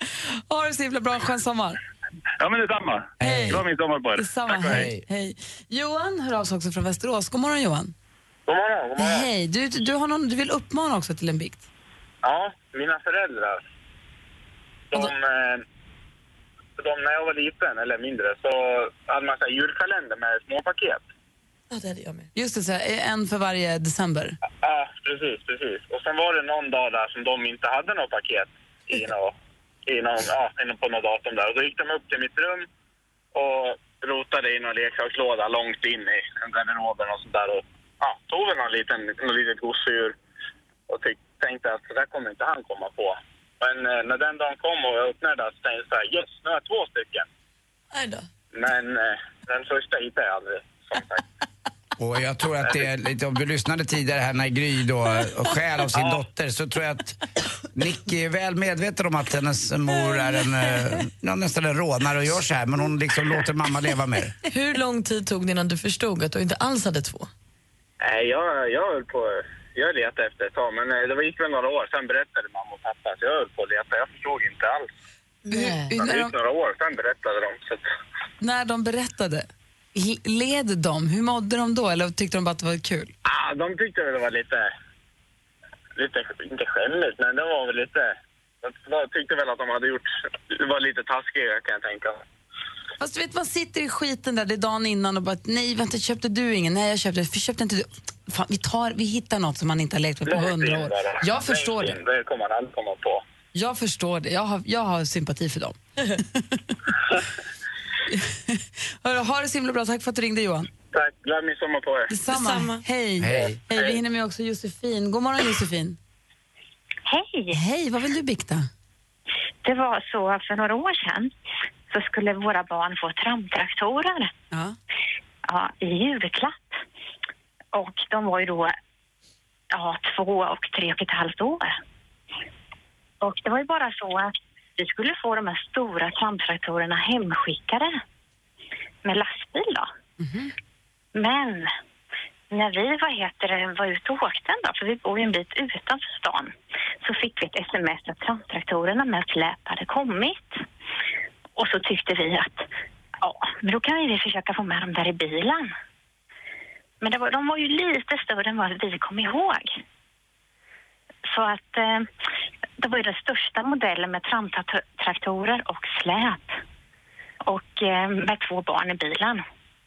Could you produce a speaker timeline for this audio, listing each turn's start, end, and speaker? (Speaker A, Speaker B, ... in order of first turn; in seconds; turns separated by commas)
Speaker A: 0.5-1.8, Speaker B: 2.4-4.9, Speaker C: 3.2-3.6, Speaker A: 3.2-3.6, Speaker A: 4.2-7.9, Speaker C: 4.7-5.0, Speaker D: 8.5-9.3, Speaker A: 9.0-11.6, Speaker D: 12.2-13.6, Speaker D: 14.9-15.6, Speaker D: 16.8-21.0, Speaker E: 21.7-22.3, Speaker A: 22.3-24.4, Speaker D: 24.6-29.3, Speaker D: 29.9-32.7, Speaker D: 33.3-40.1, Speaker D: 40.9-47.2, Speaker E: 47.9-48.2, Speaker D: 48.5-51.2, Speaker C: 52.0-57.2, Speaker D: 55.9-56.2, Speaker C: 57.7-64.3, Speaker E: 64.5-67.3, Speaker D: 68.0-74.9, Speaker A: 75.5-76.3, Speaker E: 75.6-75.8, Speaker D: 75.9-77.8, Speaker A: 78.4-83.1, Speaker D: 83.2-84.7, Speaker D: 86.0-92.2, Speaker A: 93.0-102.0, Speaker D: 100.3-103.2, Speaker A: 103.5-105.8, Speaker A: 106.3-106.6, Speaker A: 108.1-110.7, Speaker D: 110.9-112.1, Speaker A: 112.1-116.0, Speaker E: 112.3-112.8, Speaker C: 113.2-113.6, Speaker F: 117.1-117.5, Speaker A: 117.5-118.7, Speaker F: 119.6-121.3, Speaker F: 121.9-124.3, Speaker A: 124.5-124.8, Speaker F: 125.5-126.8, Speaker F: 127.7-128.7, Speaker F: 129.7-131.7, Speaker F: 133.2-138.0, Speaker F: 139.0-139.9, Speaker A: 140.2-140.5, Speaker F: 141.2-141.7, Speaker F: 142.5-150.6, Speaker F: 151.6-152.7, Speaker F: 153.2-155.7, Speaker F: 157.0-159.8, Speaker F: 161.3-162.1, Speaker F: 162.8-166.6, Speaker F: 167.4-169.4